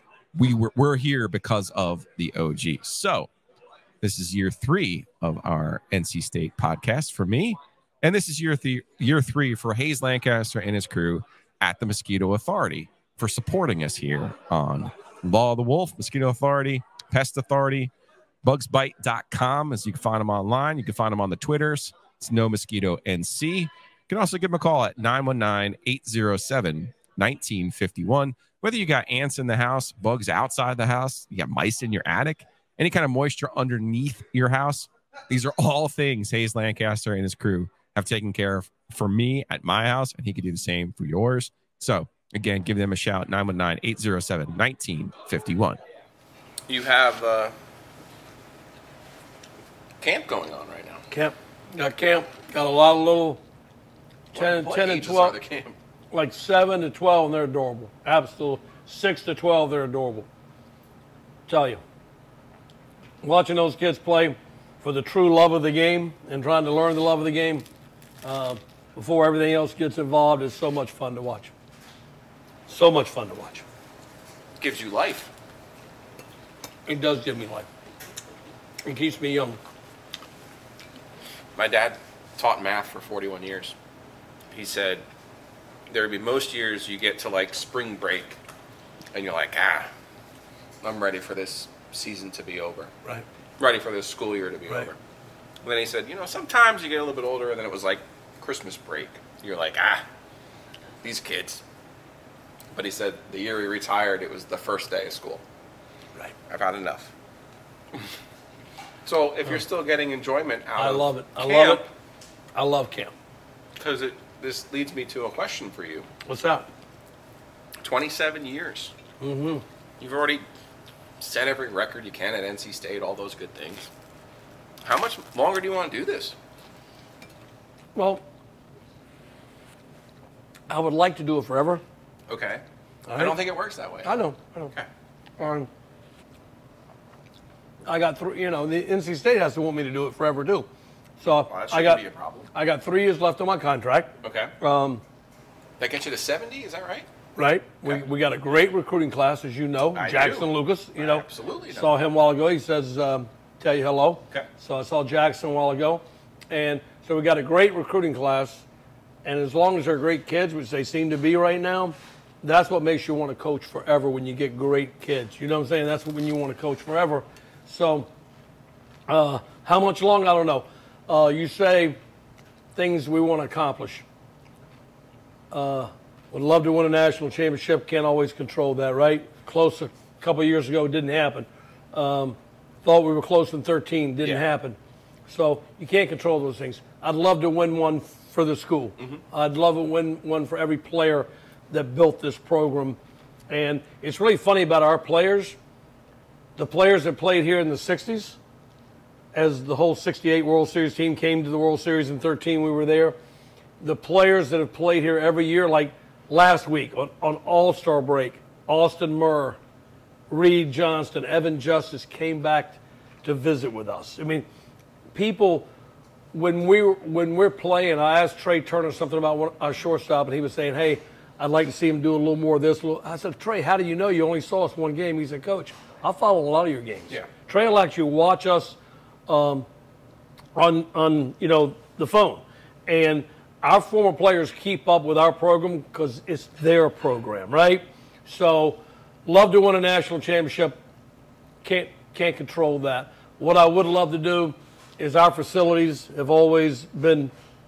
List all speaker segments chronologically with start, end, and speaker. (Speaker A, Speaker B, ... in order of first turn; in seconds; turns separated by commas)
Speaker A: 0.3-3.3, Speaker A: 4.0-17.9, Speaker A: 18.4-45.8, Speaker A: 46.7-47.5, Speaker A: 50.0-51.0, Speaker B: 51.1-53.4, Speaker B: 54.3-55.4, Speaker A: 54.3-55.8, Speaker B: 56.1-60.3, Speaker B: 61.5-61.8, Speaker B: 63.2-67.7, Speaker B: 68.2-71.5, Speaker B: 72.7-73.6, Speaker A: 74.6-75.3, Speaker B: 76.9-77.7, Speaker B: 78.8-79.6, Speaker A: 81.5-83.8, Speaker A: 84.5-85.0, Speaker A: 85.9-88.4, Speaker A: 89.1-89.9, Speaker A: 90.8-92.9, Speaker A: 93.6-95.0, Speaker A: 95.6-100.0, Speaker A: 101.0-101.6, Speaker A: 102.7-105.4, Speaker A: 106.5-107.1, Speaker A: 109.0-111.9, Speaker B: 110.8-111.8, Speaker B: 112.5-113.1, Speaker A: 113.8-116.1, Speaker B: 116.3-116.7, Speaker A: 117.8-118.9, Speaker B: 119.2-119.6, Speaker A: 120.0-120.4, Speaker A: 121.2-123.9, Speaker A: 124.8-126.4, Speaker B: 128.0-128.2, Speaker B: 130.7-131.8, Speaker A: 132.3-132.6, Speaker B: 133.1-133.4, Speaker A: 133.2-134.2, Speaker B: 134.0-134.7, Speaker B: 135.4-135.7, Speaker B: 137.8-140.7, Speaker B: 141.2-142.0, Speaker A: 141.2-142.5, Speaker B: 142.5-145.0, Speaker A: 144.2-144.5, Speaker A: 145.8-147.1, Speaker B: 147.4-158.7, Speaker A: 149.9-151.9, Speaker B: 159.2-168.1, Speaker B: 169.1-172.0, Speaker B: 172.8-174.0, Speaker B: 175.5-193.0, Speaker B: 193.5-195.6, Speaker B: 196.6-198.4, Speaker B: 199.3-203.2, Speaker B: 203.8-209.6, Speaker B: 210.3-214.5, Speaker B: 215.1-215.7, Speaker B: 216.3-228.8, Speaker B: 229.3-229.7, Speaker B: 230.6-240.8, Speaker B: 241.6-247.3